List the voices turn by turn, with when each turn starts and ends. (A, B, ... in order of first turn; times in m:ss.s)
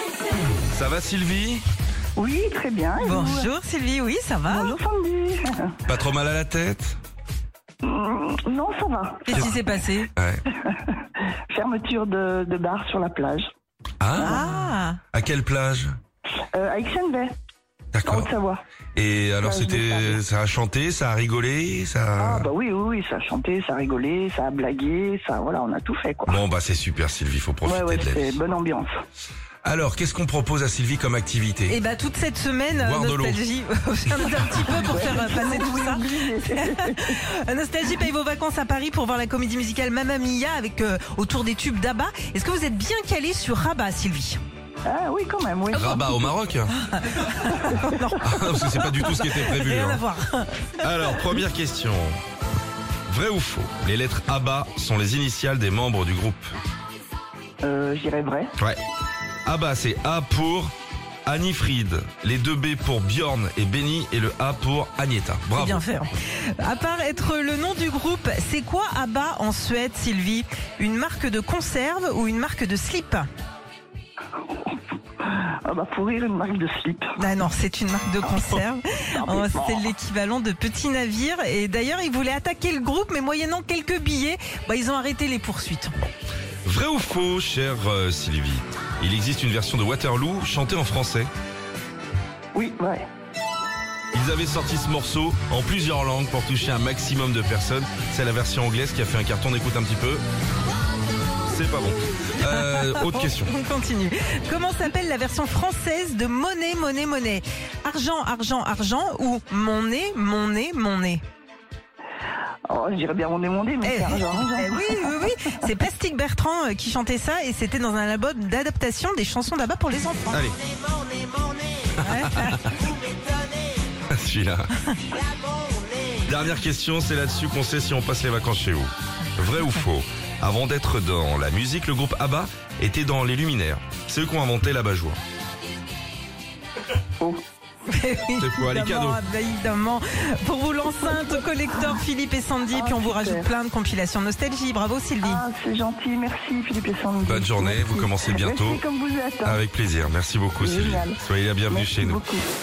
0:00.7-0:01.6 A
0:02.2-0:03.5 B
0:03.0-0:04.7 C
0:04.5-0:05.8 B
0:05.9-0:07.0 A
0:07.8-0:09.6 B
0:09.2-0:10.1 C
0:10.2-0:10.4 A
0:10.5-0:13.5 B
0:14.0-0:14.4 A
0:14.1-0:14.5 B
0:14.2-0:15.0 C
0:15.1-0:15.9 A
0:16.5-0:17.3 B
0:17.9-0:18.3 A
0:18.0-0:18.6 B
0:18.9-0:22.5 A
0:19.4-0:20.2 B
0:22.2-0:26.4 B
0:26.3-0:28.4 A
0:27.6-0:29.0 B
0:29.6-0:31.8 A
0:31.7-0:44.4 C
0:32.7-0:33.4 A
0:34.6-0:37.2 B
0:44.8-0:46.3 B
0:45.7-0:50.0 A
0:46.7-0:50.9 C
0:50.8-0:52.2 A
0:53.1-0:56.5 A
0:57.6-0:58.5 B
0:59.4-1:00.7 A
1:01.2-1:05.8 A
1:05.5-1:13.2 C
1:15.2-1:17.1 B
1:17.2-1:25.9 C
1:19.1-1:19.8 B
1:26.6-1:31.3 A
1:32.5-1:33.0 B
1:34.1-1:40.2 A
1:41.5-1:43.5 A
1:42.4-1:51.2 C
1:52.7-1:55.3 B
1:53.8-2:00.5 C
2:00.3-2:00.6 A
2:02.0-2:02.7 C
2:04.1-2:04.7 A
2:06.1-2:15.2 A
2:17.9-2:25.4 C
2:18.4-2:19.2 A
2:21.0-2:21.4 B
2:22.7-2:23.5 B
2:25.2-2:29.6 B
2:27.2-2:28.8 A
2:29.4-2:32.2 A
2:30.6-2:32.5 B